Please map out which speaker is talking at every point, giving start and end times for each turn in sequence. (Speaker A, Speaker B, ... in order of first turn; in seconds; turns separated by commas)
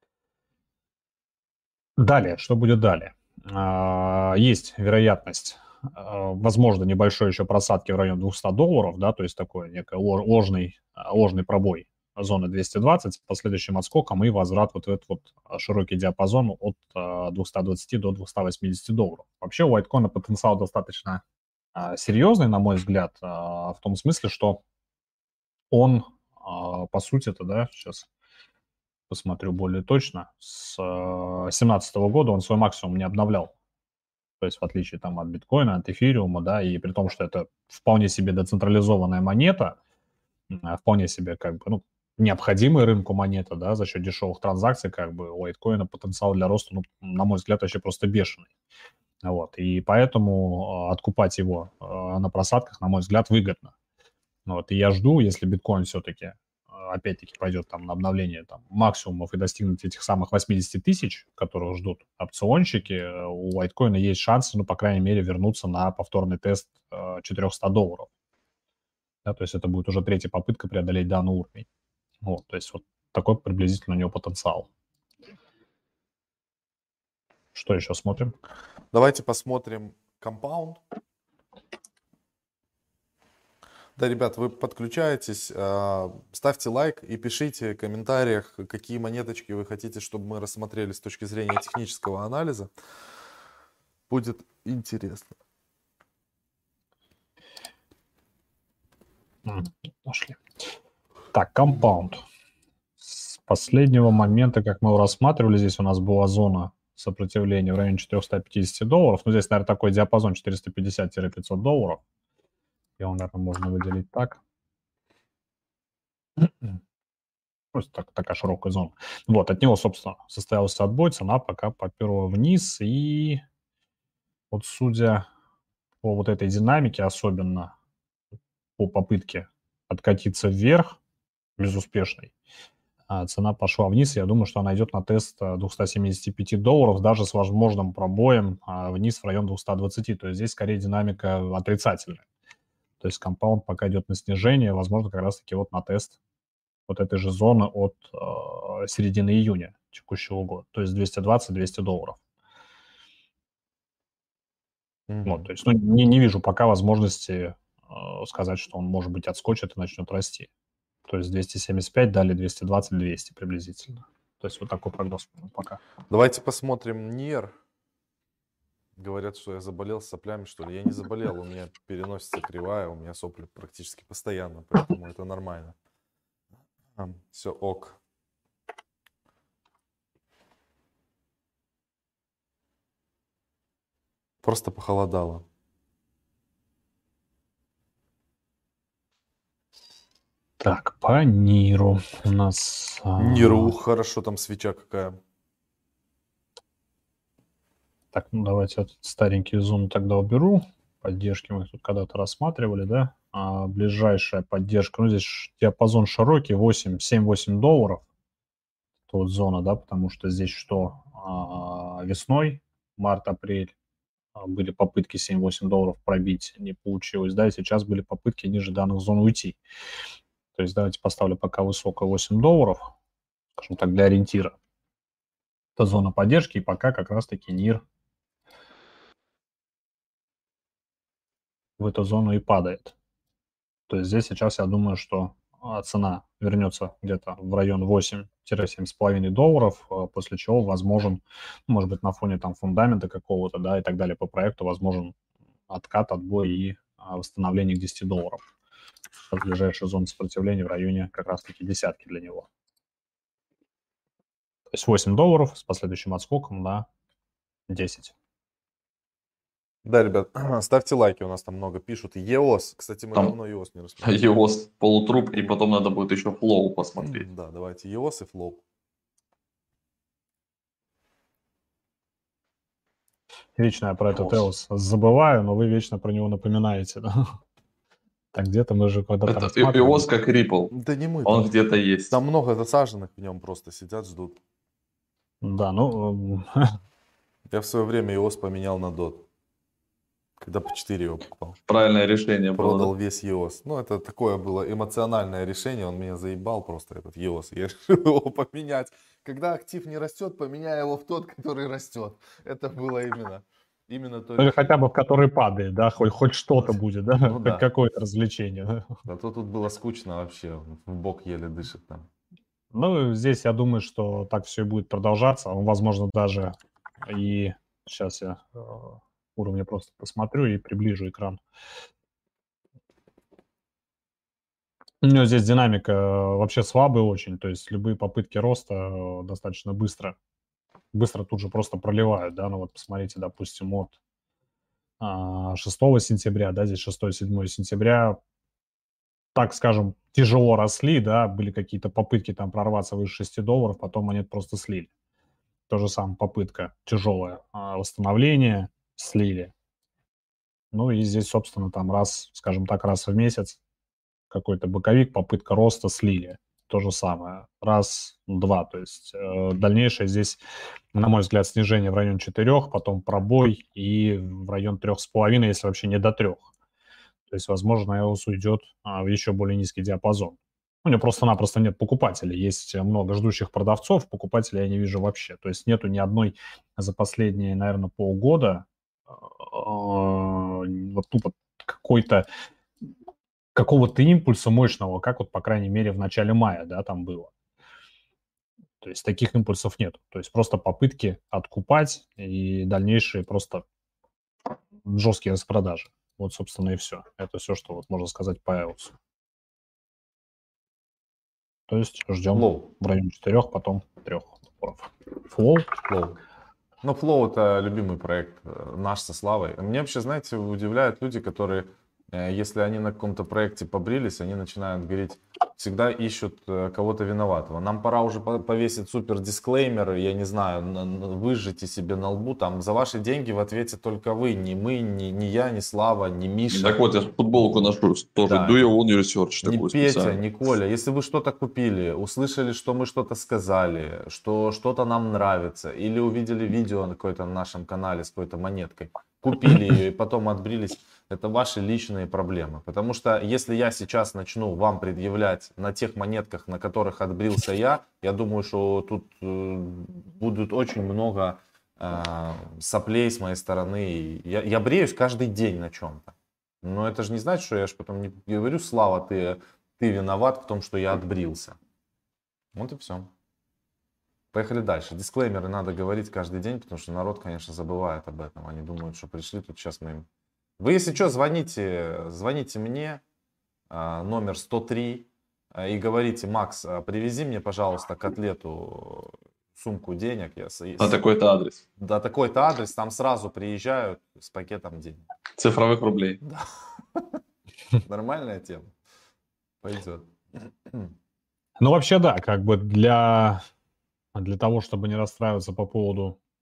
Speaker A: 2.0-21.2, Speaker A: 21.7-24.6, Speaker A: 25.7-28.1, Speaker A: 29.1-33.5, Speaker A: 34.4-39.8, Speaker A: 40.5-48.5, Speaker A: 49.2-53.7, Speaker A: 54.5-68.1, Speaker A: 69.2-71.7, Speaker A: 72.2-74.7, Speaker A: 77.5-78.3, Speaker B: 78.9-80.8, Speaker B: 84.0-92.7, Speaker B: 94.1-95.3, Speaker A: 99.5-100.4, Speaker A: 101.3-102.2, Speaker A: 103.0-112.0, Speaker A: 113.0-114.4, Speaker A: 116.4-116.7, Speaker A: 117.7-123.4, Speaker A: 124.5-125.2, Speaker A: 126.0-127.7, Speaker A: 128.8-131.0, Speaker A: 131.6-132.3, Speaker A: 133.1-142.2, Speaker A: 143.0-146.2, Speaker A: 146.9-152.2, Speaker B: 155.1-155.4, Speaker A: 155.2-160.5, Speaker A: 161.1-165.8, Speaker B: 166.1-167.5, Speaker B: 169.0-175.7, Speaker B: 177.0-178.0, Speaker B: 184.4-185.4, Speaker A: 190.6-193.7, Speaker B: 193.2-195.2, Speaker A: 198.1-208.0, Speaker A: 209.1-213.7, Speaker A: 214.3-219.6, Speaker A: 220.5-222.9, Speaker A: 223.6-224.6, Speaker A: 225.8-227.8, Speaker A: 231.8-232.9, Speaker A: 233.9-245.1, Speaker A: 245.7-248.4, Speaker A: 249.3-252.5, Speaker A: 254.7-256.9, Speaker A: 257.7-258.1, Speaker B: 259.8-264.2, Speaker C: 264.0-267.3, Speaker B: 267.0-268.6, Speaker A: 273.6-277.1, Speaker A: 278.3-280.1, Speaker C: 279.2-280.7, Speaker B: 280.7-281.5, Speaker C: 281.2-282.1, Speaker B: 282.1-284.4, Speaker A: 285.4-286.5, Speaker B: 287.5-289.2, Speaker B: 290.4-291.6, Speaker C: 291.7-292.9, Speaker B: 292.6-304.7, Speaker A: 304.4-308.9, Speaker B: 306.6-307.7, Speaker B: 309.1-312.1, Speaker A: 312.7-316.5, Speaker A: 317.1-321.4, Speaker A: 325.0-330.1, Speaker A: 330.9-333.9, Speaker A: 335.0-338.2, Speaker A: 339.3-344.9, Speaker A: 345.7-349.5, Speaker A: 350.7-353.6, Speaker A: 354.3-360.4, Speaker A: 360.9-366.5, Speaker A: 367.3-378.6, Speaker A: 379.2-382.2, Speaker A: 383.5-387.3, Speaker A: 388.8-393.6, Speaker A: 394.8-398.9, Speaker A: 401.7-405.7, Speaker B: 402.3-402.7, Speaker B: 405.9-406.2, Speaker B: 406.8-426.8, Speaker C: 426.5-430.2, Speaker B: 428.2-428.7, Speaker B: 429.4-461.6, Speaker B: 462.5-463.1, Speaker B: 464.3-470.1, Speaker B: 470.6-473.0, Speaker B: 473.7-481.0, Speaker C: 480.8-481.6, Speaker B: 481.8-485.0, Speaker C: 485.4-486.2, Speaker B: 486.2-487.0, Speaker B: 487.8-488.7, Speaker B: 489.6-490.9, Speaker A: 491.6-493.4, Speaker A: 494.1-496.2